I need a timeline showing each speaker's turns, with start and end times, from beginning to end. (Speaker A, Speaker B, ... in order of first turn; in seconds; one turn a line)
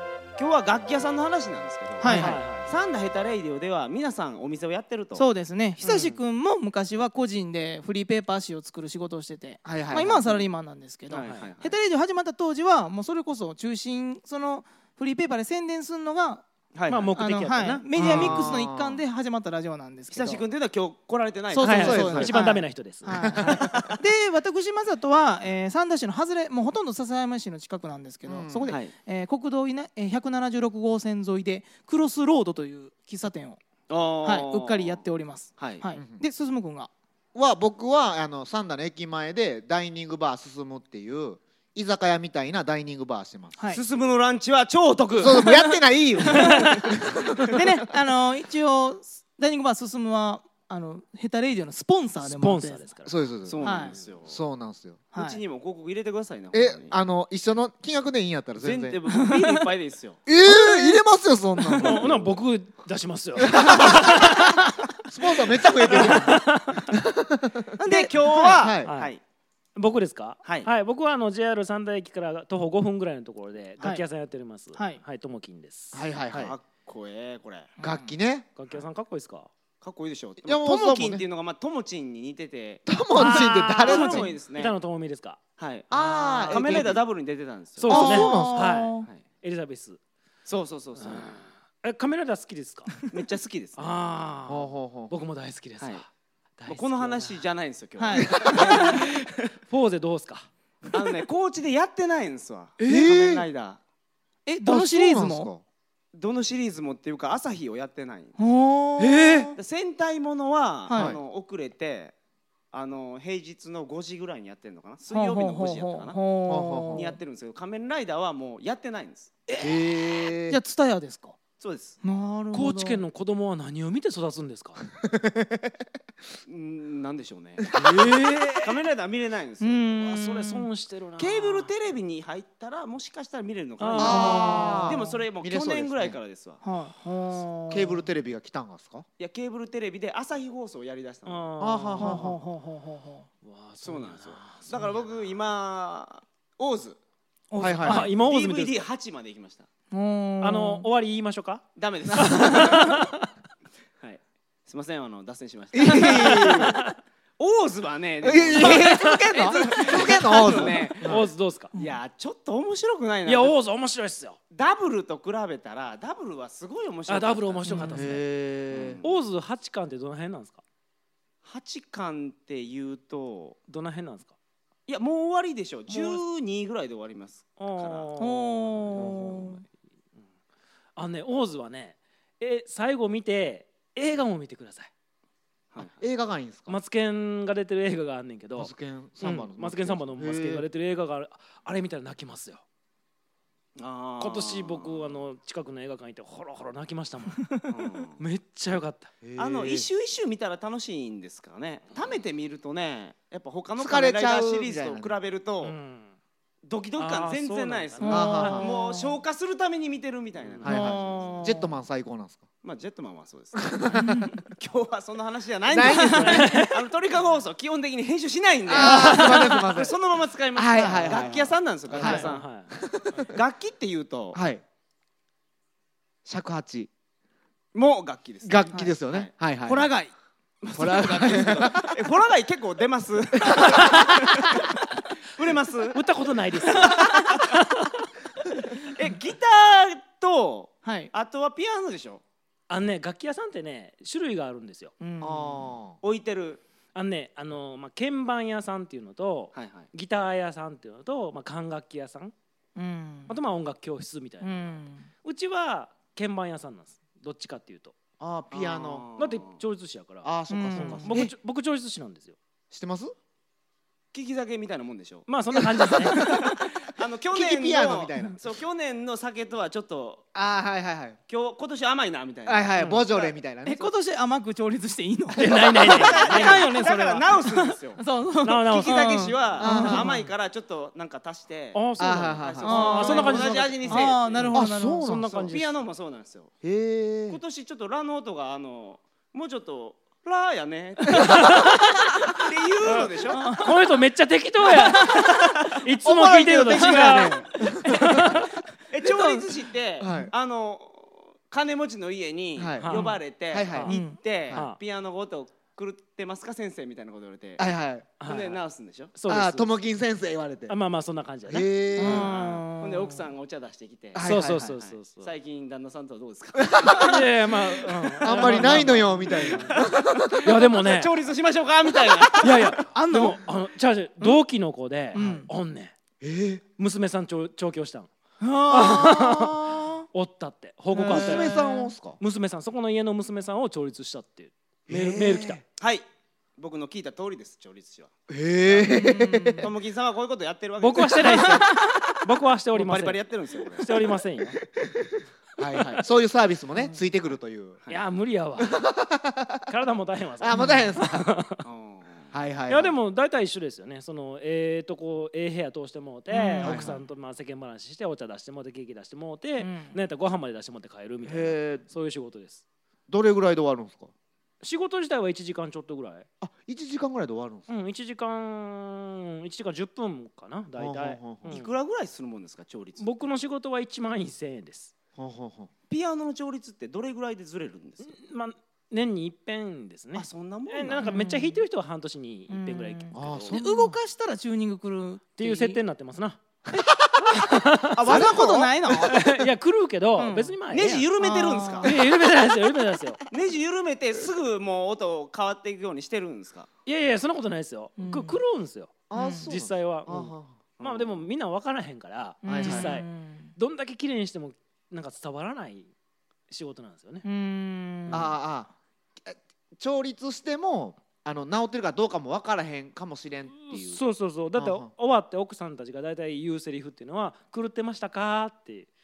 Speaker A: 0.4-5.2
Speaker B: 2.0-2.3
Speaker C: 2.0-2.7
Speaker D: 2.1-2.4
Speaker B: 5.1-16.5
Speaker C: 5.8-6.2
Speaker D: 9.6-10.3
Speaker A: 11.1-11.8
Speaker C: 11.2-11.5
Speaker A: 16.7-17.1
Speaker C: 16.9-18.5
Speaker B: 17.1-20.4
Speaker D: 17.9-19.0
Speaker A: 20.1-22.3
Speaker B: 21.5-33.6
Speaker C: 21.6-23.6
Speaker D: 21.8-22.4
Speaker D: 23.2-23.9
Speaker A: 23.7-24.0
Speaker D: 28.2-28.7
Speaker A: 28.7-28.9
Speaker A: 33.9-35.0
Speaker B: 34.2-36.9
Speaker A: 35.6-35.8
Speaker D: 35.9-36.2
Speaker D: 37.3-43.6
Speaker A: 43.7-45.5
Speaker D: 45.2-47.6
Speaker B: 45.4-45.7
Speaker A: 47.3-47.6
Speaker B: 47.5-52.8
Speaker C: 52.2-54.0
Speaker D: 53.0-53.6
Speaker A: 53.4-54.4
Speaker B: 53.6-54.0
Speaker D: 54.2-55.0
Speaker A: 55.1-56.9
Speaker B: 55.1-55.4
Speaker D: 56.5-59.0
Speaker A: 58.6-60.2
Speaker B: 59.1-59.5
Speaker D: 60.2-62.4
Speaker B: 60.4-61.0
Speaker B: 61.6-62.0
Speaker C: 61.8-64.6
Speaker D: 63.4-64.4
Speaker D: 65.0-67.7
Speaker C: 65.6-66.9
Speaker B: 67.8-68.7
Speaker A: 67.8-69.2
Speaker D: 68.6-68.9
Speaker C: 68.8-69.1
Speaker C: 69.8-76.5
Speaker D: 75.9-76.5
Speaker A: 76.3-77.7
Speaker B: 77.8-78.1
Speaker D: 77.8-78.5
Speaker C: 78.5-79.5
Speaker A: 79.8-82.9
Speaker D: 80.4-81.2
Speaker D: 82.9-84.3
Speaker B: 83.1-84.2
Speaker C: 83.2-85.4
Speaker A: 83.8-84.7
Speaker A: 85.6-87.9
Speaker D: 85.9-87.0
Speaker C: 85.9-87.0
Speaker C: 87.8-90.0
Speaker D: 87.8-88.7
Speaker B: 87.9-89.1
Speaker A: 90.5-91.5
Speaker C: 91.0-93.1
Speaker A: 93.1-93.9
Speaker C: 93.8-97.4
Speaker D: 94.5-95.1
Speaker A: 96.7-99.5
Speaker B: 98.0-99.0
Speaker D: 98.3-98.7
Speaker C: 98.5-100.5
Speaker A: 100.9-103.8
Speaker D: 102.8-103.5
Speaker B: 104.5-105.5
Speaker D: 104.7-105.6
Speaker A: 106.1-108.3
Speaker B: 108.4-109.5
Speaker C: 109.0-109.5
Speaker A: 109.5-112.1
Speaker B: 110.9-111.2
Speaker D: 110.9-111.2
Speaker A: 112.7-116.2
Speaker B: 115.1-117.2
Speaker D: 116.5-117.0
Speaker A: 116.9-119.3
Speaker D: 119.6-120.6
Speaker B: 120.5-121.4
Speaker A: 121.6-122.0
Speaker B: 122.0-123.0
Speaker C: 122.5-124.8
Speaker D: 125.0-125.8
Speaker A: 126.5-127.7
Speaker D: 127.7-128.8
Speaker C: 127.7-128.6
Speaker A: 128.6-130.1
Speaker B: 129.6-130.7
Speaker C: 130.1-131.7
Speaker A: 131.2-136.6
Speaker C: 133.8-134.6
Speaker B: 134.0-135.2
Speaker D: 134.0-136.2
Speaker B: 136.6-138.0
Speaker D: 137.7-139.1
Speaker A: 139.2-141.5
Speaker C: 141.2-142.2
Speaker D: 141.6-142.4
Speaker B: 142.0-143.3
Speaker C: 143.4-145.3
Speaker A: 143.8-147.0
Speaker B: 147.5-148.1
Speaker D: 147.6-148.1
Speaker C: 147.8-148.8
Speaker A: 148.1-149.7
Speaker B: 149.9-150.9
Speaker C: 150.4-153.3
Speaker A: 151.8-152.9
Speaker D: 152.2-152.6
Speaker B: 152.4-152.7
Speaker A: 154.0-156.8
Speaker D: 155.7-156.8
Speaker C: 156.1-156.9
Speaker A: 157.4-163.5
Speaker D: 158.2-161.3
Speaker C: 158.5-161.7
Speaker B: 161.7-162.0
Speaker C: 163.2-164.4
Speaker A: 164.5-167.8
Speaker C: 167.1-168.2
Speaker B: 167.7-168.0
Speaker D: 167.9-169.0
Speaker A: 168.7-169.1
Speaker C: 169.0-170.6
Speaker A: 171.4-173.6
Speaker C: 173.7-174.3
Speaker A: 174.9-178.1
Speaker C: 175.9-176.2
Speaker C: 177.6-180.2
Speaker B: 178.2-179.6
Speaker D: 179.0-179.3
Speaker C: 180.9-184.9
Speaker A: 185.7-186.0
Speaker D: 186.0-186.8
Speaker C: 186.7-192.6
Speaker D: 188.6-190.7
Speaker A: 193.8-195.2
Speaker C: 194.2-197.5
Speaker A: 197.7-198.2
Speaker C: 198.2-199.1
Speaker D: 199.2-199.9
Speaker A: 199.4-205.8
Speaker D: 203.8-205.1
Speaker C: 205.6-206.1
Speaker A: 206.6-211.4
Speaker C: 206.9-208.6
Speaker B: 208.0-209.2
Speaker D: 208.1-208.7
Speaker D: 210.6-212.5
Speaker B: 210.7-211.7
Speaker A: 212.6-222.6
Speaker D: 213.6-214.1
Speaker B: 213.9-214.4
Speaker D: 215.7-216.4
Speaker B: 215.9-216.6
Speaker C: 216.1-216.8
Speaker D: 218.7-219.9
Speaker C: 218.8-219.7
Speaker D: 220.5-223.3
Speaker B: 220.7-221.3
Speaker C: 221.9-222.8
Speaker A: 223.2-224.4
Speaker D: 224.3-224.6
Speaker D: 226.2-226.9
Speaker A: 227.7-229.3
Speaker D: 228.4-229.9
Speaker B: 229.6-230.1
Speaker A: 230.6-236.0
Speaker D: 230.7-231.9
Speaker C: 235.9-237.9
Speaker A: 236.8-237.1
Speaker B: 236.8-237.3
Speaker A: 238.8-242.2
Speaker B: 240.8-241.1
Speaker C: 242.7-244.9
Speaker B: 245.0-245.7
Speaker D: 245.2-246.0
Speaker A: 246.0-246.6
Speaker C: 246.9-252.3
Speaker A: 249.5-249.9
Speaker B: 252.8-253.3
Speaker C: 253.3-257.9
Speaker B: 254.4-255.1
Speaker D: 258.2-259.1
Speaker A: 258.5-259.6
Speaker C: 259.2-262.4
Speaker D: 260.2-261.3
Speaker B: 260.5-261.2
Speaker D: 262.7-263.1
Speaker A: 264.1-265.3
Speaker C: 265.3-266.3
Speaker D: 265.5-266.7
Speaker A: 266.2-270.2
Speaker D: 267.3-268.4
Speaker D: 270.3-271.2
Speaker A: 271.3-273.4
Speaker D: 272.4-273.9
Speaker C: 272.8-273.1
Speaker B: 273.6-280.3
Speaker C: 275.3-276.7
Speaker A: 275.8-278.0
Speaker C: 278.4-280.0
Speaker A: 278.6-281.8
Speaker D: 279.6-280.1
Speaker C: 281.7-285.8
Speaker D: 282.0-283.0
Speaker A: 282.4-284.5
Speaker B: 282.6-285.0
Speaker D: 284.5-285.6
Speaker A: 285.5-286.5
Speaker D: 286.6-287.4
Speaker A: 287.3-293.6
Speaker C: 291.3-292.0
Speaker C: 292.8-298.5
Speaker B: 293.3-293.9
Speaker B: 294.7-295.5
Speaker A: 295.6-297.5
Speaker B: 296.7-298.4
Speaker D: 297.6-298.3
Speaker A: 298.9-307.6
Speaker B: 299.0-299.5
Speaker D: 300.0-300.3
Speaker D: 302.6-303.9
Speaker C: 302.8-303.2
Speaker B: 303.9-304.2
Speaker C: 304.5-304.8
Speaker D: 307.6-308.1
Speaker C: 308.2-308.6
Speaker A: 308.2-309.1
Speaker C: 309.1-309.7
Speaker D: 309.3-310.8
Speaker C: 310.7-311.7
Speaker D: 311.4-312.3
Speaker B: 312.0-313.2
Speaker A: 312.0-322.8
Speaker D: 314.1-314.8
Speaker C: 314.2-315.3
Speaker D: 316.6-317.2
Speaker C: 316.8-319.8
Speaker D: 318.2-320.5
Speaker C: 320.4-321.1
Speaker D: 322.2-322.5
Speaker C: 322.4-325.9
Speaker B: 322.9-323.4
Speaker B: 325.1-325.5
Speaker D: 326.2-326.6
Speaker C: 326.8-328.1
Speaker B: 328.4-330.1
Speaker C: 328.7-331.5
Speaker B: 330.9-331.9
Speaker D: 331.0-332.2
Speaker C: 332.2-335.6
Speaker D: 334.9-335.6
Speaker A: 335.8-336.1
Speaker A: 336.6-338.1
Speaker D: 338.3-339.7
Speaker A: 338.6-338.9
Speaker B: 338.9-339.7
Speaker A: 339.6-341.7
Speaker C: 340.8-344.6
Speaker B: 341.2-342.0
Speaker A: 342.7-344.0
Speaker D: 344.8-347.8
Speaker C: 345.6-346.0
Speaker C: 347.9-348.8
Speaker D: 348.6-349.7
Speaker C: 349.7-351.6
Speaker D: 350.4-351.3
Speaker B: 350.5-350.8
Speaker A: 351.6-352.3
Speaker D: 352.3-352.9
Speaker C: 352.7-362.6
Speaker B: 356.3-357.0
Speaker D: 356.6-356.9
Speaker B: 359.6-359.9
Speaker D: 361.2-361.8
Speaker D: 363.1-364.1
Speaker C: 364.6-366.2
Speaker D: 366.4-367.7
Speaker C: 367.7-371.7
Speaker D: 370.8-371.6
Speaker A: 371.5-373.1
Speaker C: 373.0-374.9
Speaker D: 375.2-375.7
Speaker A: 375.9-378.1
Speaker C: 378.0-383.6
Speaker A: 380.1-381.1
Speaker B: 381.0-381.6
Speaker B: 382.5-385.8
Speaker D: 383.1-383.9
Speaker C: 385.4-386.4
Speaker D: 386.8-387.3
Speaker C: 387.4-388.2
Speaker A: 387.9-388.7
Speaker B: 388.0-389.2
Speaker C: 389.0-391.1
Speaker B: 390.2-390.5
Speaker A: 390.7-391.9
Speaker B: 391.2-391.9
Speaker C: 391.8-393.2
Speaker A: 393.3-396.7
Speaker C: 396.9-405.9
Speaker B: 398.0-398.4
Speaker D: 399.1-400.6
Speaker B: 399.1-399.5
Speaker A: 400.8-401.2
Speaker B: 402.4-403.5
Speaker D: 402.4-403.0
Speaker C: 406.5-407.2
Speaker B: 407.2-408.3
Speaker C: 408.1-408.3
Speaker D: 408.1-408.7
Speaker D: 409.2-414.0
Speaker C: 413.5-418.9
Speaker D: 414.5-414.9